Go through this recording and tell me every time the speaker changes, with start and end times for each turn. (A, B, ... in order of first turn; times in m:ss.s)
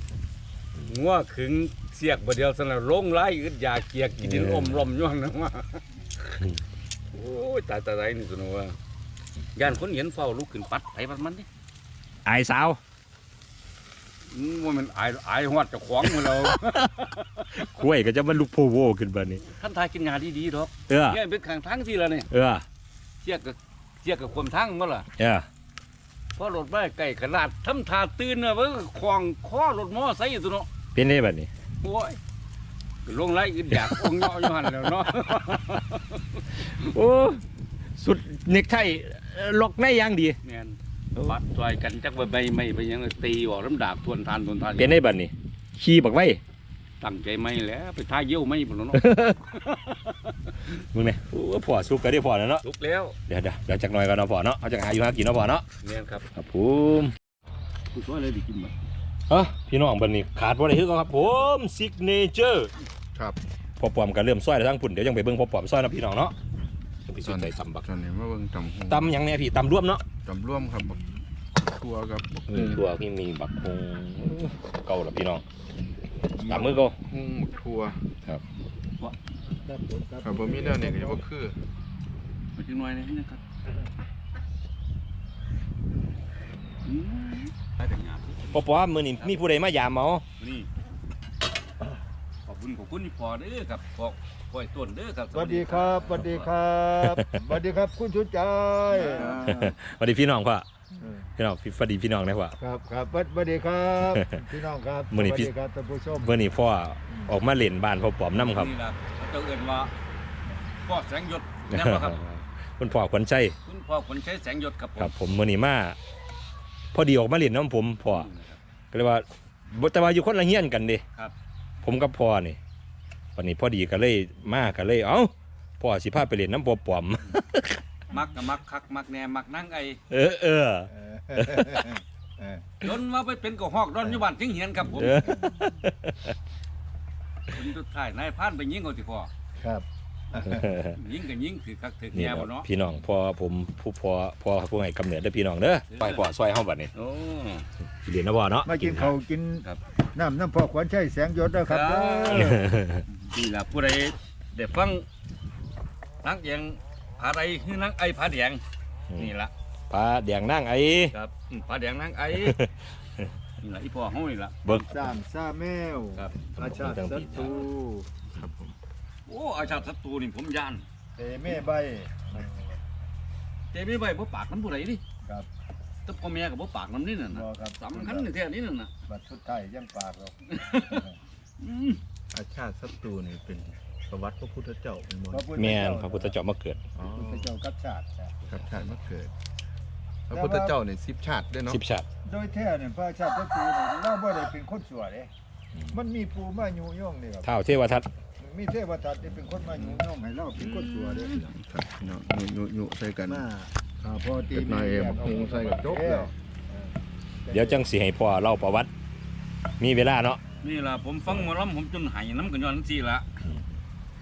0:00.9-0:06.4 A
0:04.2-0:04.9 B
0:07.1-0:08.8 A
0:09.6-0:11.5 A
0:12.2-0:12.8 B
0:14.3-0:17.6 A
0:16.3-0:16.9 B
0:17.5-0:19.4 B
0:19.4-0:22.3 A
0:20.9-0:21.2 B
0:22.3-0:22.6 B
0:23.2-0:25.1 A
0:25.2-0:25.5 B
0:26.4-0:30.7 A
0:30.9-0:31.5 B
0:31.8-0:32.2 A
0:33.0-0:36.4 A
0:33.7-0:34.1 B
0:36.6-0:37.4 B
0:38.0-0:40.4 B
0:40.4-0:45.0 A
0:44.7-0:46.4 B
0:47.0-0:49.0 A
0:48.9-0:49.4 B
0:49.5-0:50.3 A
0:50.8-0:52.6 B
0:52.6-0:53.2 A
0:53.3-0:55.6 B
0:55.8-0:56.2 A
0:56.3-0:57.1 B
0:57.9-0:58.7 A
0:59.3-1:02.7 B
1:03.8-1:06.3 B
1:07.1-1:07.8 B
1:07.2-1:09.1 C
1:08.9-1:10.0 B
1:10.2-1:11.0 C
1:11.5-1:12.9 C
1:12.5-1:15.4 B
1:16.4-1:16.7 D
1:16.5-1:17.0 B
1:16.5-1:18.1 C
1:19.6-1:21.2 D
1:20.2-1:21.6 C
1:22.6-1:23.4 A
1:26.8-1:29.4 A
1:28.5-1:30.2 B
1:30.4-1:30.7 A
1:32.4-1:36.5 A
1:35.3-1:39.7 D
1:38.9-1:39.7 C
1:39.4-1:40.6 B
1:41.0-1:41.3 D
1:41.4-1:42.6 B
1:42.6-1:46.3 D
1:44.0-1:44.4 B
1:45.1-1:45.5 B
1:46.2-1:48.7 B
1:48.4-1:49.9 A
1:50.8-1:52.2 A
1:51.7-1:53.6 B
1:53.6-1:55.1 A
1:55.0-1:56.0 B
1:56.9-1:58.3 B
1:58.1-1:58.6 A
1:58.9-2:01.0 B
2:01.8-2:02.6 B
2:03.4-2:07.8 B
2:08.1-2:10.0 A
2:10.1-2:11.9 B
2:10.9-2:12.7 D
2:12.8-2:15.4 A
2:14.9-2:16.3 B
2:17.5-2:19.3 A
2:19.6-2:20.7 D
2:20.5-2:21.0 B
2:20.9-2:22.7 A
2:22.1-2:26.9 B
2:25.9-2:26.2 A
2:26.9-2:27.7 A
2:28.0-2:29.1 B
2:28.6-2:32.6 D
2:31.6-2:32.5 A
2:32.3-2:33.0 B
2:33.3-2:35.0 A
2:36.2-2:38.6 A
2:39.1-2:39.3 B
2:39.2-2:39.5 A
2:39.9-2:41.1 B
2:41.1-2:42.6 A
2:42.3-2:43.3 B
2:43.6-2:44.7 A
2:44.6-2:45.2 B
2:44.7-2:48.1 D
2:46.1-2:46.4 A
2:46.5-2:47.6 B
2:48.3-2:48.7 C
2:49.3-2:50.8 A
2:51.2-2:52.8 D
2:53.7-2:55.0 A
2:56.0-2:58.9 A
2:57.3-2:58.3 D
2:59.1-3:01.2 D
3:00.6-3:01.0 A
3:01.6-3:02.0 A
3:02.3-3:05.5 C
3:05.3-3:06.4 D
3:05.5-3:06.8 B
3:06.9-3:07.5 C
3:07.0-3:08.5 D
3:08.5-3:09.3 C
3:10.3-3:11.8 C
3:10.3-3:10.8 D
3:11.7-3:12.0 B
3:12.2-3:15.3 D
3:15.9-3:17.5 D
3:17.4-3:18.1 B
3:18.4-3:21.4 D
3:19.7-3:20.0 C
3:20.6-3:23.5 C
3:23.2-3:26.9 D
3:24.5-3:26.3 C
3:27.4-3:27.8 D
3:27.5-3:28.9 B
3:29.8-3:30.4 B
3:30.6-3:33.3 A